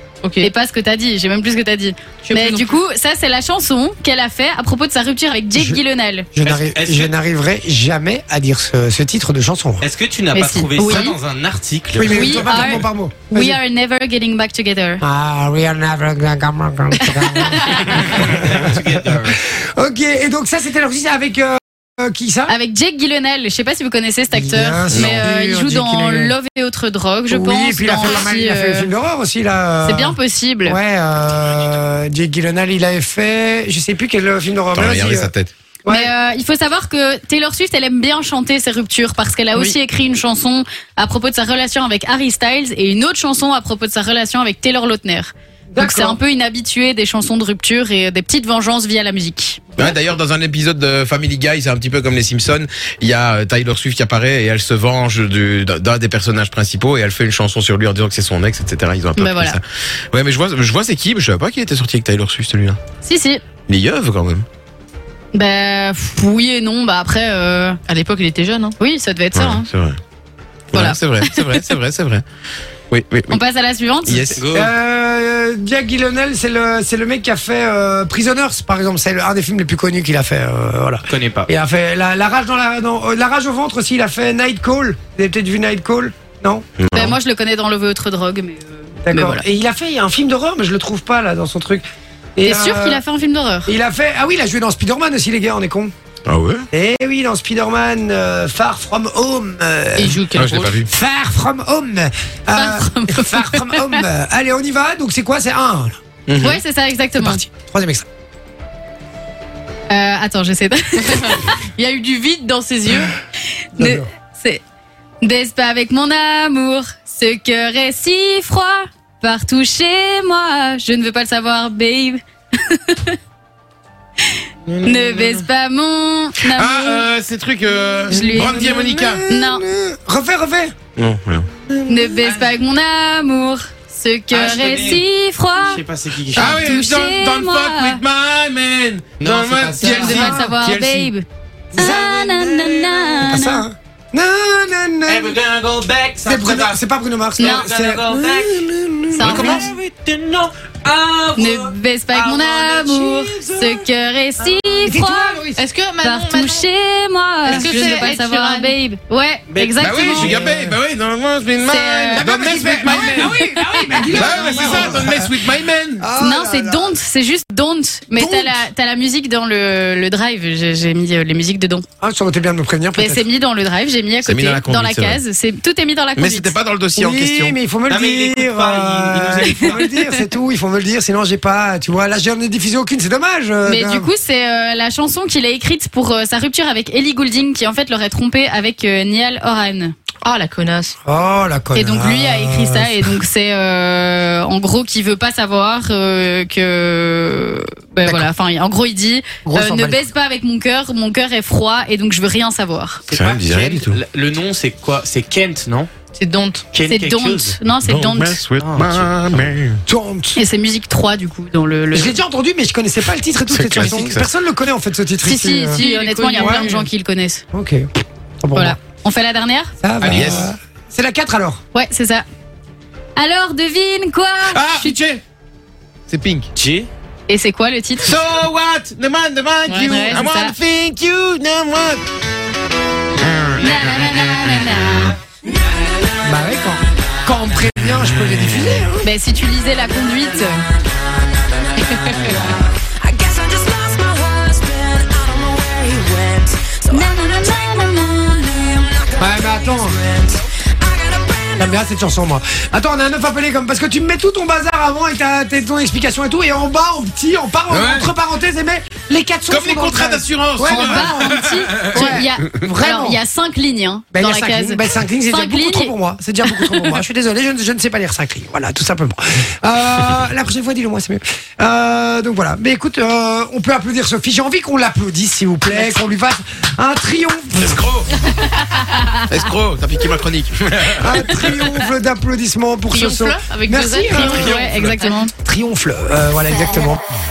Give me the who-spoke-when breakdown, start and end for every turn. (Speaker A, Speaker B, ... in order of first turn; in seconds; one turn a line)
Speaker A: 0.2-0.5
Speaker B: 0.4-6.3
Speaker A: 2.2-2.8
Speaker C: 5.5-5.8
Speaker C: 6.3-9.9
Speaker D: 6.4-7.1
Speaker D: 9.8-12.4
Speaker B: 10.3-11.2
Speaker C: 11.9-13.6
Speaker B: 12.1-15.0
Speaker C: 15.0-22.5
Speaker B: 17.0-18.4
Speaker D: 18.1-19.4
Speaker B: 22.5-28.9
Speaker C: 24.3-26.4
Speaker E: 24.9-25.3
Speaker C: 27.3-35.3
Speaker B: 29.8-30.8
Speaker E: 34.7-35.5
Speaker C: 35.9-36.1
Speaker B: 35.9-49.9
Speaker C: 45.7-46.2
Speaker E: 49.8-62.8
Speaker B: 59.2-59.6
Speaker B: 63.0-63.4
Speaker E: 63.7-64.5
Speaker B: 65.3-67.8
Speaker A: 67.9-68.8
Speaker B: 68.8-69.7
Speaker E: 69.3-70.0
Speaker E: 70.7-72.2
Speaker B: 70.7-71.1
Speaker E: 72.9-73.4
Speaker B: 73.3-74.4
Speaker E: 74.1-74.5
Speaker D: 74.4-74.7
Speaker C: 74.5-86.7
Speaker D: 81.1-81.5
Speaker E: 86.8-87.2
Speaker B: 86.9-89.4
Speaker C: 89.1-91.8
Speaker C: 92.4-93.0
Speaker B: 92.4-93.7
Speaker C: 93.7-95.9
Speaker E: 96.3-96.7
Speaker C: 96.7-100.2
Speaker A: 100.0-100.8
Speaker E: 100.3-100.9
Speaker C: 100.8-106.0
Speaker B: 102.5-104.0
Speaker E: 106.3-106.6
Speaker B: 106.4-107.4
Speaker C: 107.2-108.1
Speaker B: 109.9-111.6
Speaker A: 111.0-113.2
Speaker B: 113.8-114.6
Speaker C: 113.8-114.1
Speaker B: 115.2-123.2
Speaker B: 124.3-127.1
Speaker E: 124.7-125.0
Speaker E: 126.4-129.2
Speaker B: 128.1-128.8
Speaker C: 128.1-130.8
Speaker B: 129.3-129.6
Speaker E: 131.0-131.5
Speaker B: 131.9-135.8
Speaker D: 132.0-132.5
Speaker D: 134.3-135.1
Speaker D: 135.6-136.6
Speaker B: 136.3-138.0
Speaker E: 136.3-141.1
Speaker D: 139.2-140.3
Speaker B: 139.8-143.6
Speaker C: 141.7-142.4
Speaker D: 142.3-143.1
Speaker C: 143.2-145.4
Speaker D: 145.1-146.8
Speaker C: 146.2-149.6
Speaker B: 147.4-147.7
Speaker D: 147.4-148.7
Speaker B: 149.1-149.7
Speaker E: 149.2-149.7
Speaker D: 149.4-153.6
Speaker B: 151.4-155.4
Speaker C: 154.4-155.6
Speaker A: 155.6-156.7
Speaker B: 156.0-160.4
Speaker A: 157.5-158.8
Speaker E: 157.5-158.0
Speaker D: 159.5-160.4
Speaker E: 159.8-163.4
Speaker C: 160.1-160.8
Speaker B: 161.7-164.3
Speaker C: 162.1-166.9
Speaker E: 164.0-166.1
Speaker B: 166.2-171.8
Speaker C: 168.2-168.7
Speaker C: 172.0-173.3
Speaker B: 173.0-176.6
Speaker E: 174.2-175.2
Speaker E: 176.2-177.6
Speaker C: 177.0-184.1
Speaker D: 177.9-179.8
Speaker B: 179.4-179.7
Speaker B: 183.6-189.9
Speaker A: 190.2-191.0
Speaker C: 191.1-193.1
Speaker B: 191.7-203.0
Speaker C: 199.4-200.1
Speaker D: 203.1-205.9
Speaker E: 203.1-204.0
Speaker A: 206.1-206.7
Speaker D: 206.7-207.6
Speaker B: 206.9-208.4
Speaker E: 207.8-209.8
Speaker D: 208.6-209.5
Speaker C: 209.9-210.4
Speaker B: 210.4-212.2
Speaker C: 211.9-216.8
Speaker E: 213.5-214.3
Speaker B: 215.2-217.4
Speaker A: 215.7-216.9
Speaker C: 217.5-217.9
Speaker C: 218.4-218.8
Speaker B: 218.6-219.7
Speaker C: 219.8-221.6
Speaker E: 220.0-220.5
Speaker B: 221.7-222.2
Speaker B: 223.2-225.0
Speaker E: 224.5-225.2
Speaker E: 226.1-226.5
Speaker D: 226.6-226.9
Speaker B: 227.3-228.2
Speaker E: 228.0-232.0
Speaker B: 229.7-230.6
Speaker E: 233.2-234.2
Speaker B: 233.6-235.2
Speaker C: 236.2-239.1
Speaker B: 239.0-240.6
Speaker F: 242.9-249.3
Speaker B: 246.9-248.3
Speaker C: 249.2-250.0
Speaker F: 249.9-251.7
Speaker C: 251.6-263.2
Speaker E: 257.7-258.1
Speaker E: 259.5-262.1
Speaker B: 260.6-265.9
Speaker C: 264.1-278.0
Speaker B: 266.5-266.9
Speaker B: 278.6-279.2
Speaker E: 279.3-281.7
Speaker C: 281.0-284.6
Speaker A: 282.9-285.2
Speaker B: 284.1-285.3
Speaker C: 285.4-287.0